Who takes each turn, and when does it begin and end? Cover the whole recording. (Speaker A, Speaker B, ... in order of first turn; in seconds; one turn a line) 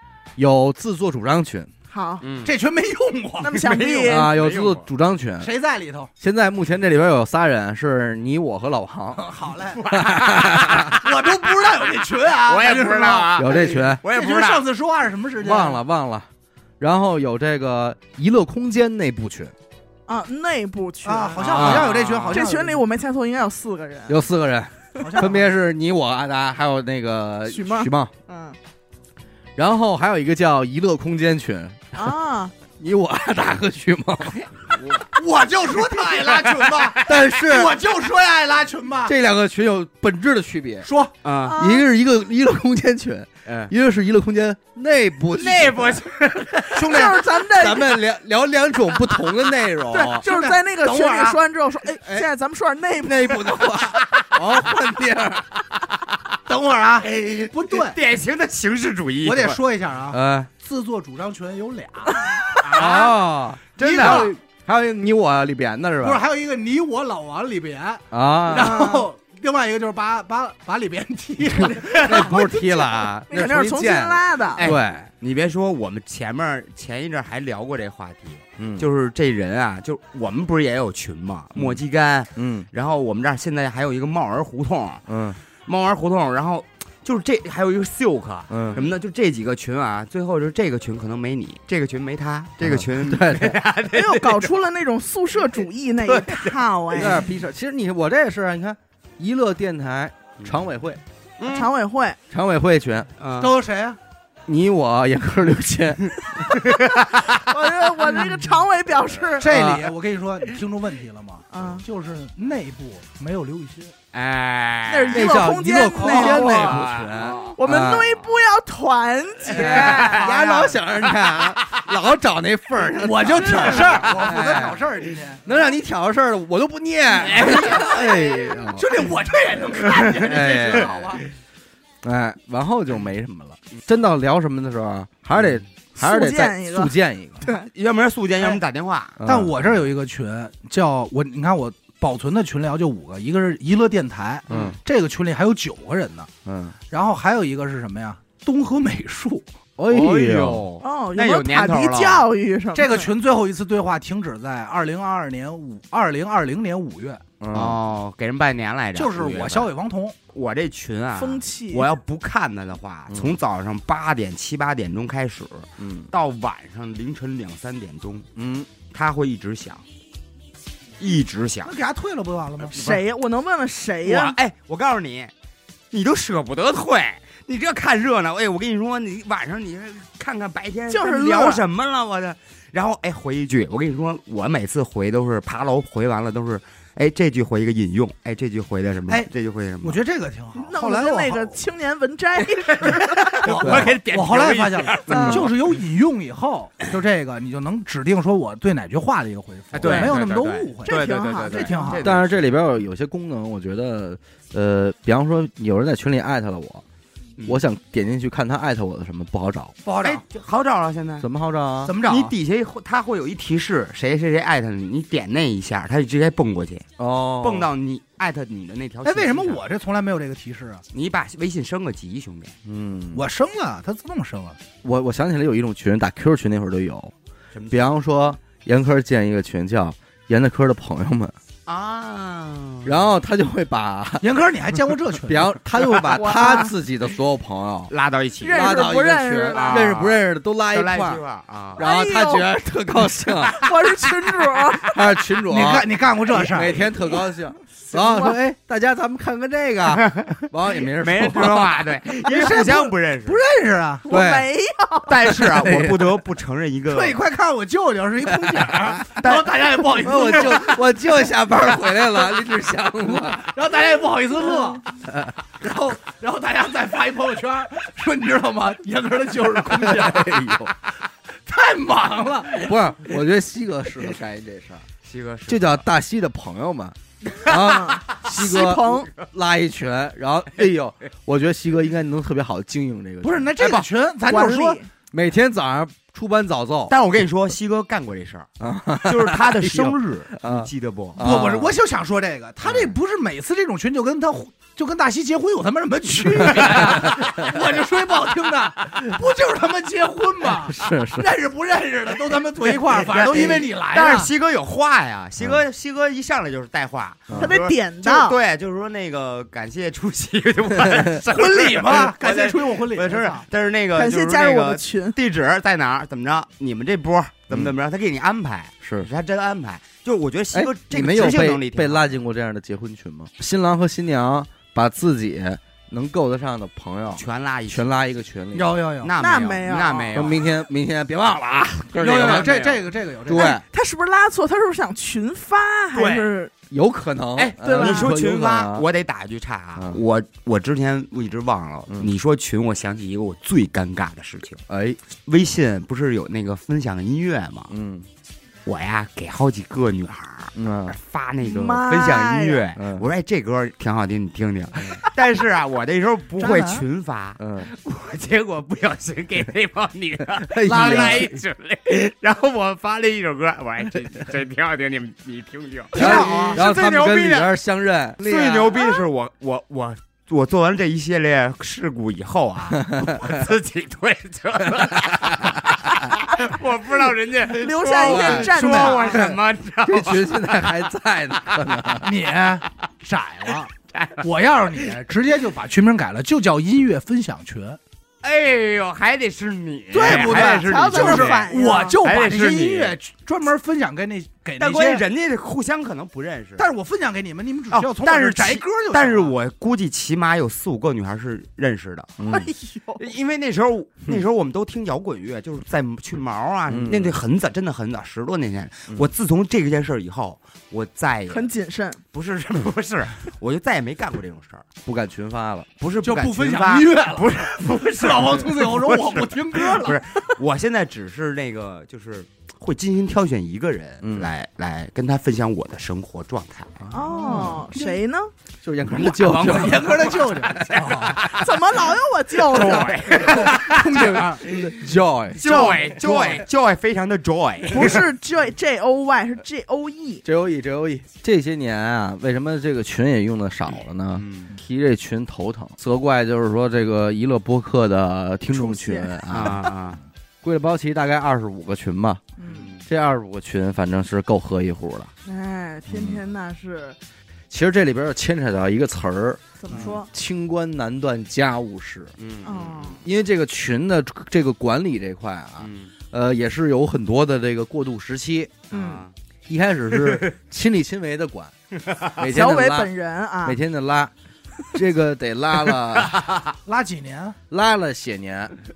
Speaker A: 0.4-1.7
Speaker B: 1.9-2.2
Speaker C: 2.2-2.5
Speaker D: 2.4-3.6
Speaker B: 3.4-4.3
Speaker C: 3.4-4.9
Speaker A: 4.0-5.5
Speaker D: 5.4-6.1
Speaker A: 6.2-9.3
Speaker D: 9.1-9.8
Speaker C: 9.8-11.1
Speaker A: 9.9-10.9
Speaker D: 10.8-15.8
Speaker C: 12.4-14.7
Speaker A: 13.4-14.0
Speaker A: 15.4-16.3
Speaker A: 16.8-19.5
Speaker B: 20.1-24.2
Speaker D: 21.0-22.8
Speaker C: 21.3-22.4
Speaker A: 21.5-22.0
Speaker A: 24.1-28.1
Speaker D: 25.0-25.5
Speaker B: 27.5-28.6
Speaker A: 29.6-32.1
Speaker B: 31.9-32.5
Speaker A: 32.8-34.5
Speaker C: 34.4-35.1
Speaker D: 35.1-39.1
Speaker C: 35.7-37.2
Speaker A: 37.0-37.8
Speaker A: 39.0-40.9
Speaker D: 40.8-41.1
Speaker C: 41.2-41.5
Speaker B: 41.4-41.9
Speaker A: 41.5-46.0
Speaker C: 43.5-43.7
Speaker C: 45.4-47.0
Speaker B: 46.7-48.0
Speaker D: 46.8-47.2
Speaker A: 46.8-50.2
Speaker B: 49.9-53.7
Speaker D: 50.2-51.4
Speaker A: 53.0-55.6
Speaker C: 53.9-54.4
Speaker D: 56.5-58.0
Speaker C: 57.1-59.6
Speaker D: 59.2-63.0
Speaker A: 60.1-60.5
Speaker B: 62.1-62.6
Speaker C: 62.6-63.2
Speaker A: 62.8-66.2
Speaker C: 63.8-64.3
Speaker D: 63.8-64.3
Speaker D: 66.0-72.5
Speaker A: 68.1-68.8
Speaker B: 68.5-69.1
Speaker A: 71.5-75.1
Speaker C: 71.8-72.3
Speaker B: 72.4-74.7
Speaker C: 74.6-85.0
Speaker A: 78.6-78.8
Speaker A: 81.5-81.8
Speaker A: 82.3-82.7
Speaker A: 85.1-85.4
Speaker C: 85.7-94.5
Speaker A: 88.5-88.8
Speaker A: 92.6-93.6
Speaker B: 93.9-97.2
Speaker C: 96.0-97.2
Speaker A: 96.9-101.0
Speaker C: 100.4-100.7
Speaker C: 101.4-101.7
Speaker B: 101.5-102.2
Speaker A: 102.3-103.1
Speaker C: 103.2-103.5
Speaker D: 103.4-104.0
Speaker A: 104.5-106.6
Speaker C: 106.5-107.2
Speaker B: 107.3-109.5
Speaker D: 109.4-113.9
Speaker A: 109.4-109.9
Speaker B: 111.5-111.8
Speaker C: 114.1-117.6
Speaker B: 114.9-116.8
Speaker A: 115.1-118.2
Speaker B: 117.5-120.3
Speaker A: 119.4-124.9
Speaker C: 119.5-121.9
Speaker D: 123.0-125.4
Speaker C: 123.5-124.2
Speaker A: 125.4-129.1
Speaker C: 127.2-128.2
Speaker D: 127.2-131.2
Speaker A: 129.8-131.2
Speaker C: 129.9-130.8
Speaker A: 132.0-137.4
Speaker B: 136.0-137.7
Speaker C: 137.5-139.2
Speaker A: 139.2-139.6
Speaker D: 139.2-146.3
Speaker A: 144.5-144.8
Speaker C: 144.5-144.8
Speaker A: 146.4-146.8
Speaker D: 146.9-149.5
Speaker A: 149.8-150.7
Speaker C: 149.9-152.3
Speaker B: 150.8-153.1
Speaker D: 152.8-157.2
Speaker A: 157.4-157.8
Speaker C: 157.5-159.7
Speaker D: 158.9-160.2
Speaker C: 160.3-168.3
Speaker B: 161.1-161.9
Speaker A: 163.1-163.4
Speaker A: 165.8-166.1
Speaker A: 168.3-168.7
Speaker C: 168.9-169.8
Speaker C: 171.0-171.7
Speaker D: 171.6-172.8
Speaker C: 172.7-173.0
Speaker B: 172.7-174.3
Speaker C: 174.0-175.3
Speaker C: 175.9-190.0
Speaker B: 180.9-181.6
Speaker D: 189.8-191.6
Speaker B: 190.5-193.5
Speaker C: 192.4-195.6
Speaker D: 193.4-200.9
Speaker A: 193.6-193.9
Speaker A: 195.1-195.5
Speaker B: 195.1-195.5
Speaker C: 199.7-202.5
Speaker B: 200.8-202.0
Speaker D: 201.5-202.1
Speaker A: 202.0-206.8
Speaker C: 207.4-207.6
Speaker A: 207.5-209.8
Speaker D: 209.8-210.2
Speaker C: 210.0-211.3
Speaker A: 211.2-211.9
Speaker D: 211.8-212.3
Speaker C: 212.0-216.8
Speaker A: 217.0-217.7
Speaker C: 217.4-219.6
Speaker D: 219.0-220.8
Speaker C: 220.9-222.5
Speaker A: 222.7-223.2
Speaker D: 223.1-224.6
Speaker A: 224.8-227.1
Speaker C: 227.5-227.9
Speaker A: 227.7-231.3
Speaker C: 231.7-233.1
Speaker A: 232.8-234.3
Speaker D: 234.2-235.5
Speaker A: 235.2-237.9
Speaker C: 235.8-236.2
Speaker B: 236.1-236.7
Speaker C: 237.9-238.8
Speaker B: 238.4-240.0
Speaker A: 238.5-241.2
Speaker C: 239.5-240.2
Speaker C: 240.7-241.8
Speaker A: 241.8-243.6
Speaker B: 241.8-242.5
Speaker C: 243.4-243.7
Speaker B: 243.6-245.1
Speaker A: 244.8-251.9
Speaker D: 245.5-246.8
Speaker B: 247.9-248.3
Speaker C: 249.9-253.4
Speaker D: 252.2-254.1
Speaker B: 254.1-255.4
Speaker A: 254.1-254.5
Speaker C: 255.1-257.2
Speaker A: 255.3-256.1
Speaker D: 256.9-260.8
Speaker A: 258.2-258.9
Speaker C: 259.0-260.8
Speaker A: 260.0-263.4
Speaker D: 263.1-264.8
Speaker A: 265.1-265.3
Speaker D: 265.6-270.7
Speaker A: 269.8-270.7
Speaker D: 271.5-272.8
Speaker A: 272.6-274.9
Speaker C: 275.0-275.9
Speaker A: 275.5-283.5
Speaker B: 277.5-279.1
Speaker D: 283.2-284.8
Speaker C: 283.6-283.9
Speaker B: 284.2-284.9
Speaker A: 285.1-286.9
Speaker C: 286.9-288.5
Speaker A: 288.6-291.7
Speaker C: 289.0-291.2
Speaker D: 291.2-304.3
Speaker C: 292.6-292.9
Speaker C: 296.6-297.1
Speaker A: 296.8-297.2
Speaker A: 300.6-301.3
Speaker C: 302.6-322.1
Speaker A: 307.3-307.5
Speaker B: 307.4-308.4
Speaker A: 310.8-311.2
Speaker D: 311.2-313.5
Speaker B: 313.9-315.2
Speaker A: 318.8-319.1
Speaker A: 320.5-328.8
Speaker C: 327.1-327.9
Speaker D: 328.5-329.1
Speaker C: 329.0-330.4
Speaker B: 329.2-330.3
Speaker A: 330.1-332.5
Speaker D: 332.0-333.5
Speaker C: 332.0-332.9
Speaker A: 333.3-333.6
Speaker B: 333.3-336.5
Speaker C: 335.9-336.3
Speaker A: 336.7-338.8
Speaker C: 337.4-344.6
Speaker B: 337.6-338.2
Speaker A: 344.7-345.0
Speaker C: 345.2-347.7
Speaker A: 347.7-348.1
Speaker C: 348.6-367.5
Speaker A: 350.5-351.0
Speaker B: 351.4-352.6
Speaker A: 352.8-353.1
Speaker D: 356.4-356.8
Speaker A: 357.4-357.7
Speaker A: 360.4-361.4
Speaker D: 360.7-361.3
Speaker D: 365.9-366.6
Speaker A: 365.9-368.9
Speaker C: 368.2-380.8
Speaker A: 372.7-373.4
Speaker A: 375.2-375.6
Speaker B: 377.5-379.2
Speaker A: 378.0-382.1
Speaker D: 378.6-378.9
Speaker D: 382.0-387.8
Speaker C: 383.9-384.2
Speaker C: 388.2-393.0
Speaker D: 389.9-395.0
Speaker B: 390.0-392.0
Speaker C: 394.6-396.7
Speaker D: 396.6-399.3
Speaker C: 397.7-402.2
Speaker A: 402.2-402.5
Speaker B: 402.2-403.0
Speaker C: 403.0-411.5
Speaker A: 406.7-407.2
Speaker B: 411.3-412.0
Speaker C: 412.1-414.6
Speaker A: 414.8-415.7
Speaker C: 415.8-426.8
Speaker D: 416.0-420.0
Speaker A: 424.0-424.3
Speaker B: 426.9-428.3
Speaker D: 426.9-427.9
Speaker A: 427.2-427.6
Speaker A: 428.6-430.8
Speaker C: 428.9-434.6
Speaker D: 429.3-431.2
Speaker B: 431.2-433.3
Speaker D: 432.8-434.6
Speaker A: 433.5-436.0
Speaker C: 435.4-438.1
Speaker D: 435.4-436.4
Speaker B: 437.7-440.2
Speaker A: 440.2-449.6
Speaker C: 444.2-444.5
Speaker B: 448.5-449.5
Speaker C: 449.3-450.0
Speaker A: 450.4-452.2
Speaker B: 452.4-452.7
Speaker C: 452.5-452.8
Speaker A: 452.8-455.1
Speaker B: 455.2-457.0
Speaker A: 457.5-462.1
Speaker B: 459.6-460.1
Speaker C: 462.2-463.0
Speaker B: 462.4-463.0
Speaker A: 463.0-468.6
Speaker C: 465.6-465.9
Speaker C: 468.7-469.1
Speaker B: 468.7-469.0
Speaker A: 469.5-471.5
Speaker C: 470.0-470.3
Speaker C: 471.9-472.1
Speaker A: 472.1-472.9
Speaker B: 472.2-473.6
Speaker A: 473.4-474.1
Speaker A: 474.7-476.2
Speaker C: 475.7-476.5
Speaker D: 476.7-477.4
Speaker A: 477.5-478.5